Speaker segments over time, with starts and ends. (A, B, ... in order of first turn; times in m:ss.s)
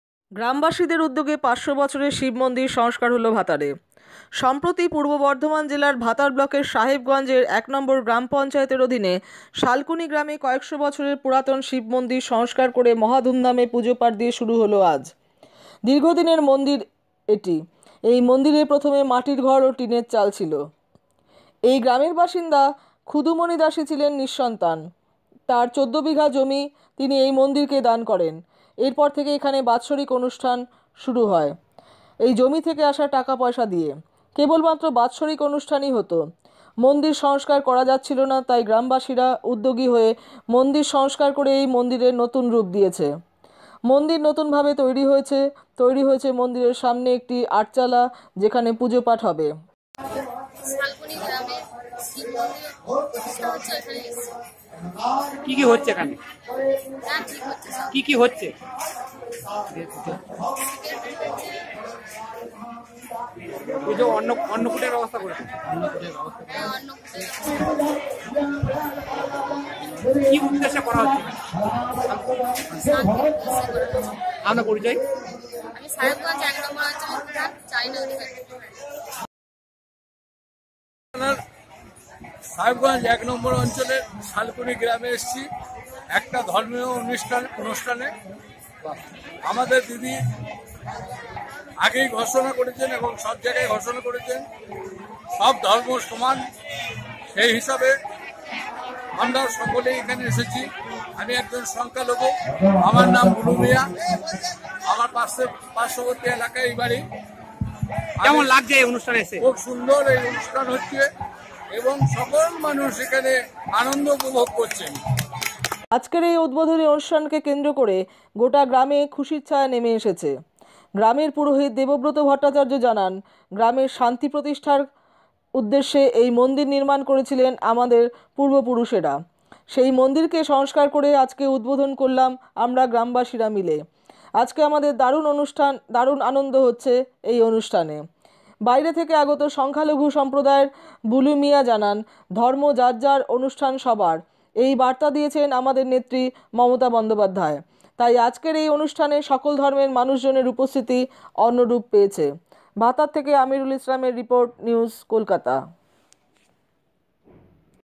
0:00.4-0:03.7 A
0:04.4-0:15.1 A
0:15.9-0:20.6 A
0:21.7-0:24.8 A
0:25.5-0:31.6 A
0:32.2-0:36.2 A
0:36.8-0:43.1 A
0:43.9-0:49.5 A
0:50.6-0:54.4 B
0:55.4-0:56.2 C
0:56.9-0:58.0 B
0:57.9-0:58.5 C
0:59.7-1:00.2 C
1:00.4-1:01.9 B
1:03.8-1:06.4 C
1:06.4-1:08.2 B
1:10.0-1:11.4 C
1:12.8-1:14.4 B
1:14.4-1:15.0 C
1:15.4-1:18.8 B
1:22.5-1:25.5 D
1:26.1-1:28.1 D
1:29.4-1:30.2 D
1:31.8-1:34.5 D
1:35.4-1:36.4 D
1:37.3-1:38.0 D
1:39.2-1:44.1 D
1:44.8-1:47.0 D
1:48.2-1:48.5 D
1:48.2-1:49.4 C
1:49.4-1:51.1 D
1:51.7-1:55.0 D
1:55.9-2:00.3 A
2:01.0-2:04.8 A
2:05.6-2:09.2 A
2:09.7-2:13.8 A
2:14.4-2:18.0 A
2:18.7-2:32.3 A
2:32.8-2:35.6 A